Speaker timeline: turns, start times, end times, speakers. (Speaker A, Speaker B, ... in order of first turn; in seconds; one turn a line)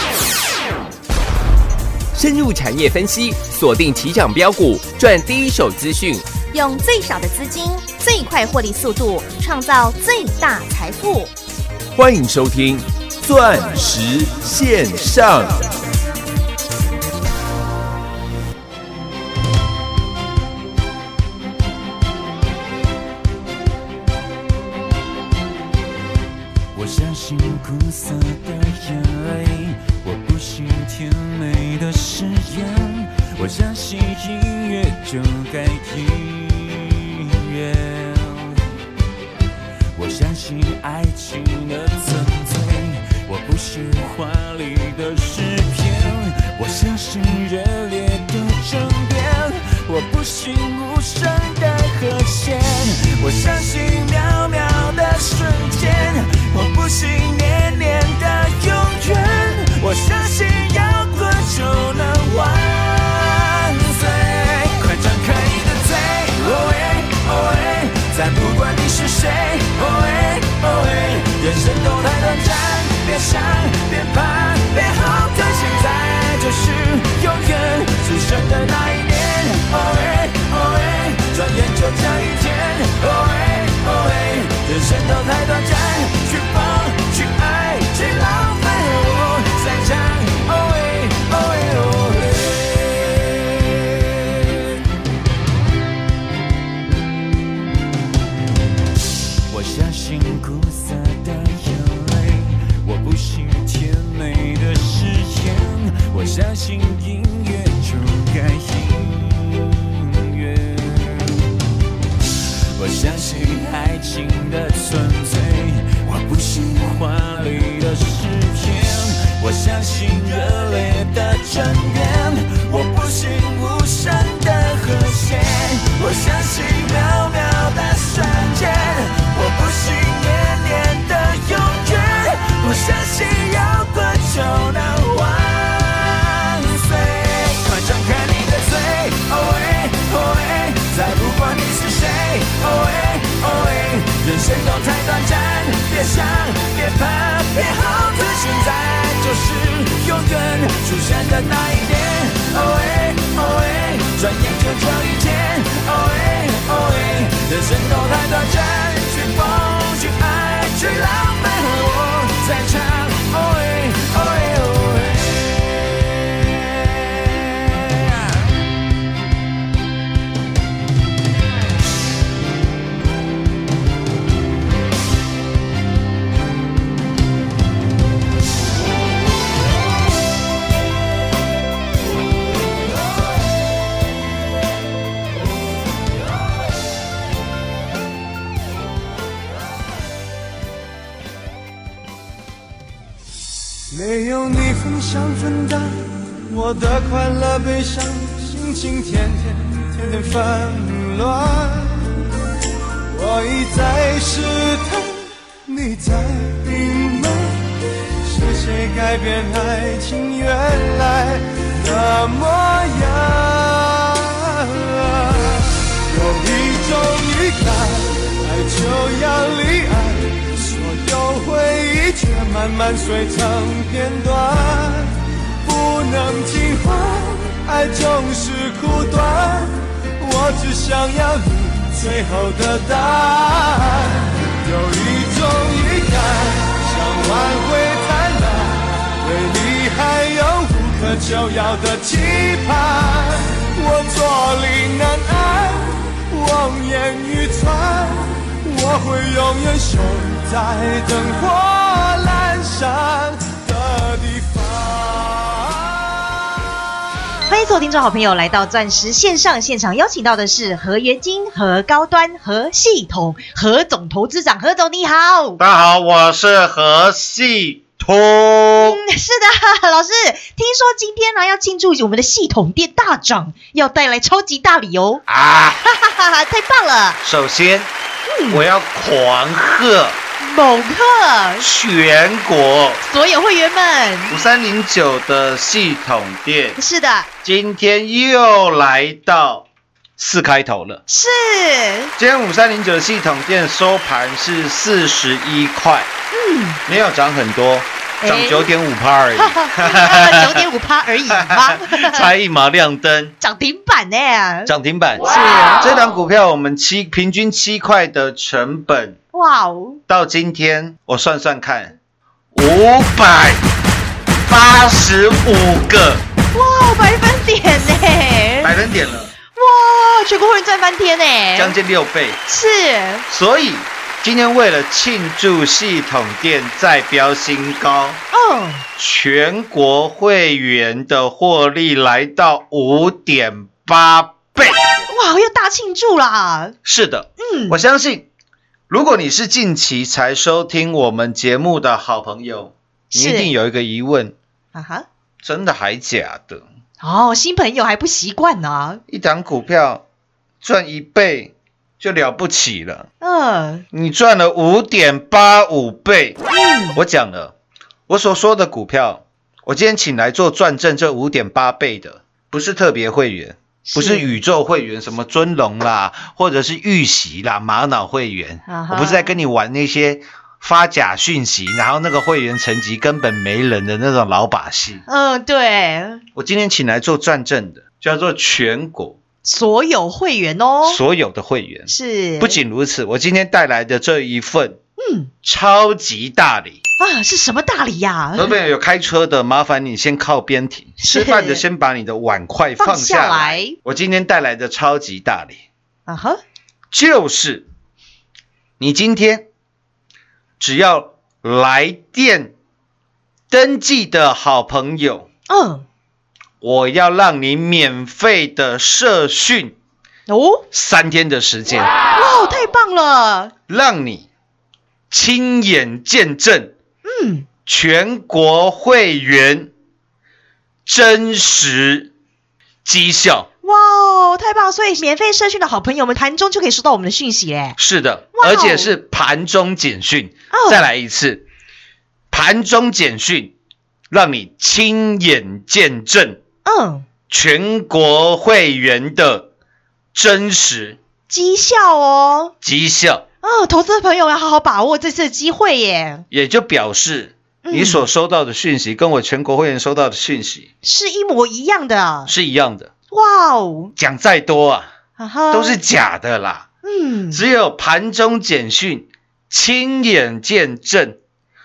Speaker A: 2.1-6.4
Speaker B: 6.4-11.3
Speaker A: 11.9-15.7
Speaker C: 26.7-38.6
Speaker C: 40.0-94.6
Speaker C: 97.3-98.1
Speaker C: 99.5-111.5
Speaker C: 112.8-168.4
Speaker D: 193.9-202.1
Speaker D: 203.1-256.2
Speaker E: 257.5-265.6
Speaker F: 265.6-269.0
Speaker E: 268.8-275.2
Speaker F: 275.3-275.8
Speaker E: 275.9-277.2
Speaker F: 277.2-277.9
Speaker E: 278.3-278.6
Speaker F: 278.5-280.2
Speaker E: 280.4-281.7
Speaker F: 281.6-283.0
Speaker E: 283.0-284.4
Speaker F: 284.3-286.8
Speaker E: 286.8-287.3
Speaker F: 287.4-289.7
Speaker F: 290.2-291.0
Speaker E: 291.1-292.1
Speaker F: 292.2-296.1
Speaker E: 296.3-296.8
Speaker F: 296.9-300.7
Speaker E: 298.2-298.7
Speaker E: 299.4-302.3
Speaker F: 301.3-303.4
Speaker E: 303.4-304.7
Speaker F: 304.7-309.2
Speaker E: 305.3-305.8
Speaker E: 309.3-310.0
Speaker F: 310.1-312.0
Speaker F: 312.5-313.6
Speaker F: 314.4-316.2
Speaker E: 316.5-318.7
Speaker F: 318.6-319.3
Speaker E: 319.6-321.8
Speaker F: 321.6-322.4
Speaker E: 322.5-323.2
Speaker F: 323.3-328.2
Speaker E: 328.3-328.9
Speaker F: 329.0-334.9
Speaker E: 335.1-336.8
Speaker F: 336.9-338.3
Speaker E: 337.4-337.8
Speaker F: 338.9-344.4
Speaker E: 343.1-343.5
Speaker E: 344.7-345.1
Speaker F: 345.4-346.6
Speaker E: 347.0-349.0
Speaker F: 349.1-350.0
Speaker F: 350.6-353.1
Speaker E: 353.2-353.9
Speaker F: 353.9-356.4
Speaker E: 356.5-357.0
Speaker F: 356.9-357.5
Speaker F: 358.1-375.0
Speaker E: 363.9-364.4
Speaker E: 368.7-369.4
Speaker E: 375.1-376.2
Speaker F: 376.4-379.2
Speaker E: 379.4-381.0
Speaker F: 380.8-384.8
Speaker E: 381.9-382.6
Speaker E: 385.0-385.3
Speaker F: 385.4-386.8
Speaker E: 387.0-388.5
Speaker F: 388.4-395.6
Speaker E: 391.0-391.6
Speaker E: 392.8-393.8
Speaker E: 396.1-396.4
Speaker F: 396.9-397.7
Speaker F: 398.8-399.5
Speaker F: 400.6-402.5
Speaker F: 403.5-405.3
Speaker E: 405.5-405.9
Speaker F: 406.6-409.8
Speaker E: 410.3-410.6
Speaker F: 410.7-411.9
Speaker E: 412.2-413.5
Speaker F: 413.7-414.3
Speaker F: 415.1-416.7
Speaker E: 417.1-417.5
Speaker F: 417.7-419.7
Speaker F: 420.9-422.1
Speaker F: 422.9-423.5
Speaker E: 423.6-427.8
Speaker F: 427.8-431.5
Speaker E: 428.4-428.9
Speaker E: 430.5-430.9
Speaker F: 432.3-433.5
Speaker F: 434.1-436.4
Speaker E: 436.6-437.1
Speaker F: 437.3-439.5
Speaker F: 440.1-441.0
Speaker E: 441.3-442.5
Speaker F: 442.6-443.3
Speaker E: 443.4-446.2
Speaker F: 446.3-450.7
Speaker E: 447.6-448.0
Speaker E: 450.8-452.3
Speaker F: 452.3-452.9
Speaker E: 453.1-453.9
Speaker F: 454.0-454.9
Speaker E: 455.2-455.8
Speaker F: 455.5-456.7
Speaker E: 456.8-457.4
Speaker F: 457.3-461.2